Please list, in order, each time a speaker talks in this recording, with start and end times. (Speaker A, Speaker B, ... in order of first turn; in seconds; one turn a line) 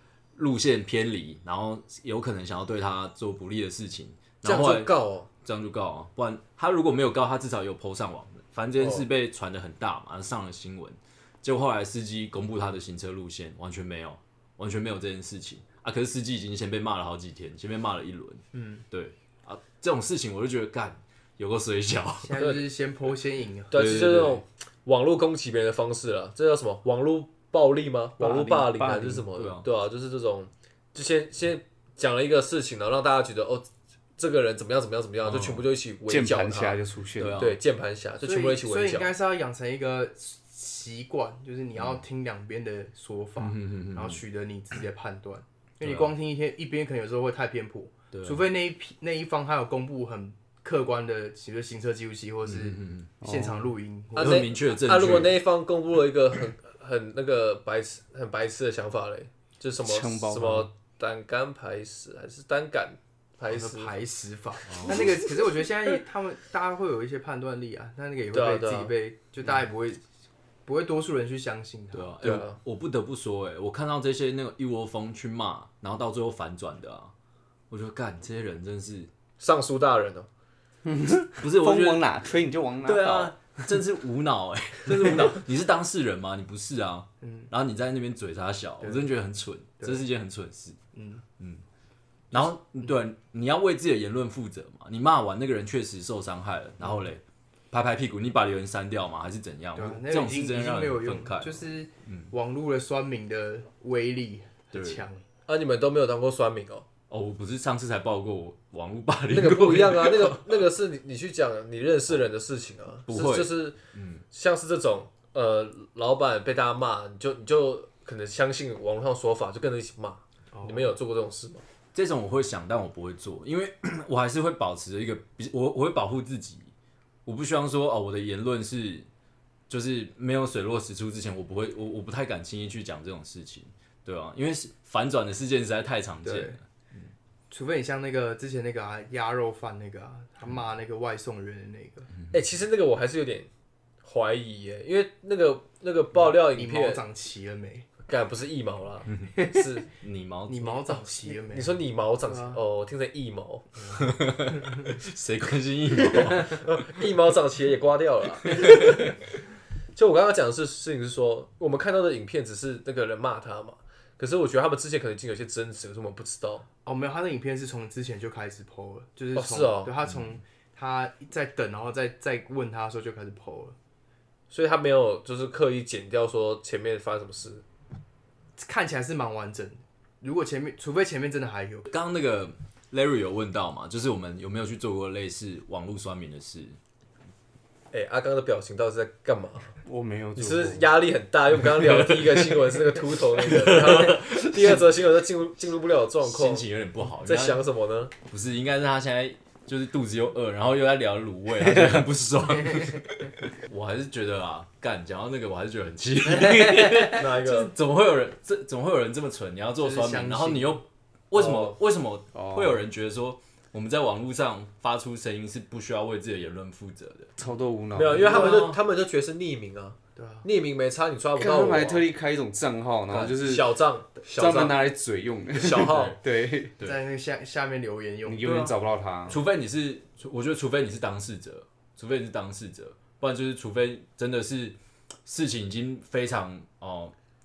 Speaker A: 0.3-22.4
Speaker B: 4.4-5.3
Speaker B: 8.8-9.1
Speaker C: 18.5-18.8
Speaker C: 22.2-23.9
Speaker B: 22.4-22.6
Speaker B: 23.7-36.8
Speaker A: 23.7-24.4
Speaker D: 28.2-29.3
Speaker A: 29.3-29.6
Speaker A: 35.2-35.6
Speaker D: 36.1-37.4
Speaker A: 37.2-37.6
Speaker B: 37.4-39.1
Speaker C: 38.2-54.5
Speaker A: 41.8-42.0
Speaker A: 43.4-44.2
Speaker A: 45.8-46.1
Speaker A: 48.1-48.5
Speaker A: 52.4-53.1
Speaker D: 53.2-53.7
Speaker A: 54.1-55.4
Speaker B: 54.1-63.9
Speaker D: 59.8-60.7
Speaker C: 63.5-70.0
Speaker A: 64.7-65.2
Speaker B: 68.3-68.9
Speaker C: 70.6-72.1
Speaker A: 71.9-77.1
Speaker B: 72.2-72.6
Speaker A: 77.7-79.1
Speaker B: 79.4-80.3
Speaker D: 80.8-83.3
Speaker A: 81.4-82.1
Speaker A: 82.8-90.8
Speaker C: 87.2-87.5
Speaker C: 88.8-89.1
Speaker C: 90.9-91.2
Speaker A: 92.3-102.3
Speaker C: 92.3-92.9
Speaker C: 96.8-97.1
Speaker C: 99.7-105.2
Speaker A: 104.7-105.0
Speaker B: 105.5-106.8
Speaker A: 107.1-110.6
Speaker B: 109.3-113.8
Speaker A: 113.1-114.2
Speaker B: 114.3-121.6
Speaker C: 120.5-120.9
Speaker A: 121.9-126.7
Speaker A: 127.2-129.1
Speaker A: 129.7-137.1
Speaker C: 136.2-136.6
Speaker C: 137.5-142.1
Speaker B: 142.3-143.5
Speaker B: 144.0-147.0
Speaker C: 146.1-147.9
Speaker B: 148.1-149.9
Speaker A: 150.0-151.0
Speaker C: 150.5-152.6
Speaker B: 151.5-153.6
Speaker C: 153.8-154.1
Speaker A: 153.9-156.7
Speaker B: 156.4-159.1
Speaker B: 159.9-166.6
Speaker C: 166.8-173.8
Speaker B: 169.3-169.9
Speaker B: 174.5-177.6
Speaker C: 178.6-181.9
Speaker A: 181.9-186.8
Speaker B: 187.9-189.8
Speaker D: 189.8-190.9
Speaker B: 190.3-196.7
Speaker A: 193.5-194.8
Speaker A: 196.2-197.6
Speaker B: 197.2-198.1
Speaker A: 198.3-217.3
Speaker D: 206.4-206.7
Speaker B: 207.1-207.7
Speaker C: 209.8-210.8
Speaker B: 211.3-211.8
Speaker D: 212.3-212.8
Speaker D: 217.4-218.6
Speaker B: 217.9-222.0
Speaker A: 218.2-218.8
Speaker C: 218.3-218.6
Speaker C: 220.2-220.5
Speaker D: 221.3-226.7
Speaker B: 223.1-224.8
Speaker B: 225.5-226.2
Speaker A: 225.8-226.1
Speaker C: 226.8-228.7
Speaker D: 228.2-229.4
Speaker A: 228.4-228.7
Speaker A: 229.3-237.1